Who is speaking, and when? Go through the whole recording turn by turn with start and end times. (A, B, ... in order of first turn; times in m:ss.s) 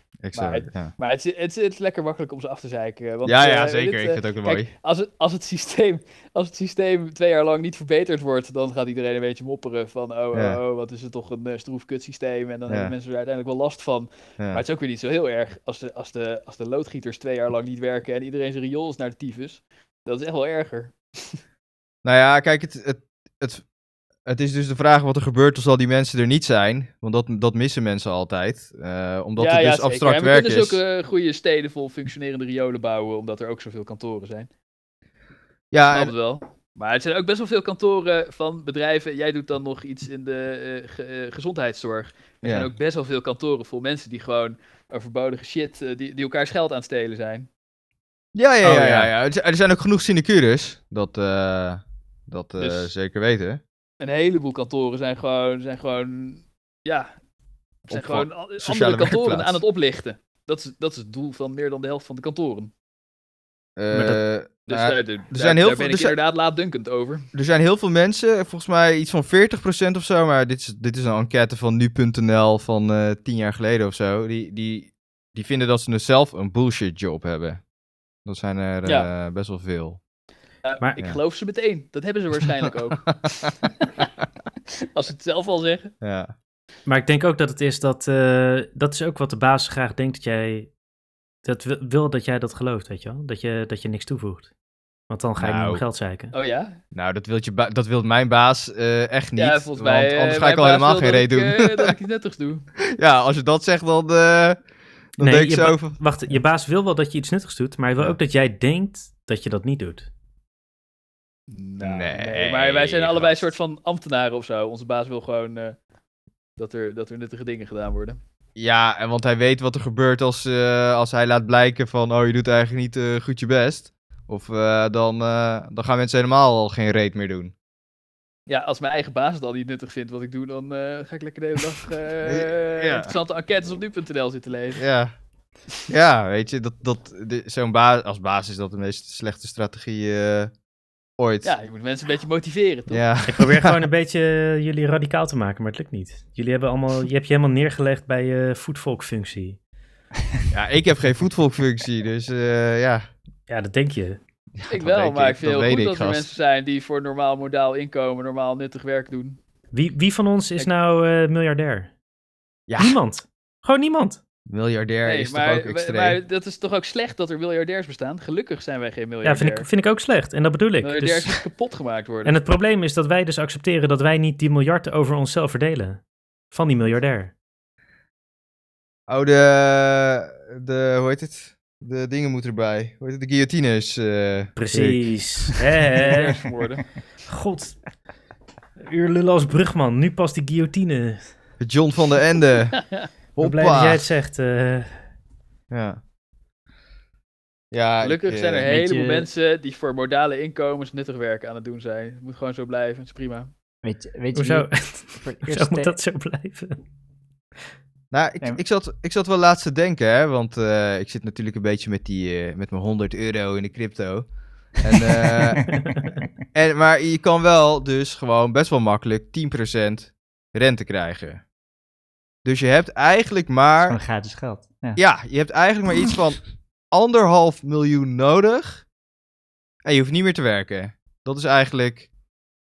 0:00.2-0:00.9 A
0:00.3-0:21.4 B
0:03.2-0:04.7 A
0:10.3-0:10.6 A
0:12.7-0:12.9 A
0:22.0-0:23.6 A
0:24.2-0:30.8 A
0:29.4-0:34.5 B
0:35.7-0:36.1 A
0:35.9-0:47.5 B
0:42.4-0:42.7 A
0:48.3-0:53.6 A
0:48.6-0:49.1 C
0:52.6-0:52.9 B
0:54.0-0:57.1 B
0:57.9-0:59.6 A
0:57.9-1:02.7 B
1:03.8-1:06.1 A
1:03.9-1:04.2 C
1:04.7-1:07.3 B
1:07.3-1:17.6 A
1:18.2-1:20.0 A
1:18.8-1:19.1 B
1:20.6-1:23.8 B
1:24.9-1:25.9 B
1:26.0-1:26.3 A
1:26.8-1:30.7 C
1:31.4-1:34.5 C
1:35.1-1:36.3 C
1:35.4-1:35.8 A
1:36.3-1:36.8 B
1:36.9-1:41.9 A
1:39.4-1:42.6 B
1:42.9-1:44.6 A
1:45.2-1:46.0 A
1:45.2-1:50.1 C
1:51.5-1:55.8 B
1:51.8-1:53.5 A
1:56.6-1:58.2 B
1:58.6-2:07.5 A
2:08.5-2:14.8 B
2:12.2-2:13.1 A
2:14.8-2:15.1 A
2:15.9-2:20.5 A
2:21.2-2:21.5 A
2:21.4-2:23.0 B
2:22.9-2:23.8 A
2:23.3-2:29.6 C
2:30.5-2:33.1 A
2:33.5-2:34.2 C
2:34.6-2:36.3 A
2:34.7-2:39.4 B
2:39.7-2:41.9 C
2:42.7-2:43.0 A
2:42.8-2:44.2 C
2:44.5-2:46.2 A
2:45.0-2:49.7 B
2:49.2-2:51.4 C
2:50.8-2:52.4 B
2:52.2-2:57.3 C
2:59.1-3:05.0 A
3:04.6-3:06.5 C
3:06.1-3:06.8 B
3:07.2-3:08.0 C
3:08.8-3:11.3 C
3:11.6-3:14.0 A
3:13.4-3:15.0 C
3:15.7-3:16.0 A
3:17.7-3:18.7 A
3:18.0-3:23.5 B
3:18.6-3:19.3 D
3:23.8-3:26.0 D
3:24.3-3:26.8 C
3:28.1-3:35.8 A
3:36.5-3:41.4 A
3:42.4-3:44.0 A
3:43.8-3:45.0 D
3:45.0-3:48.8 A
3:49.8-3:52.1 A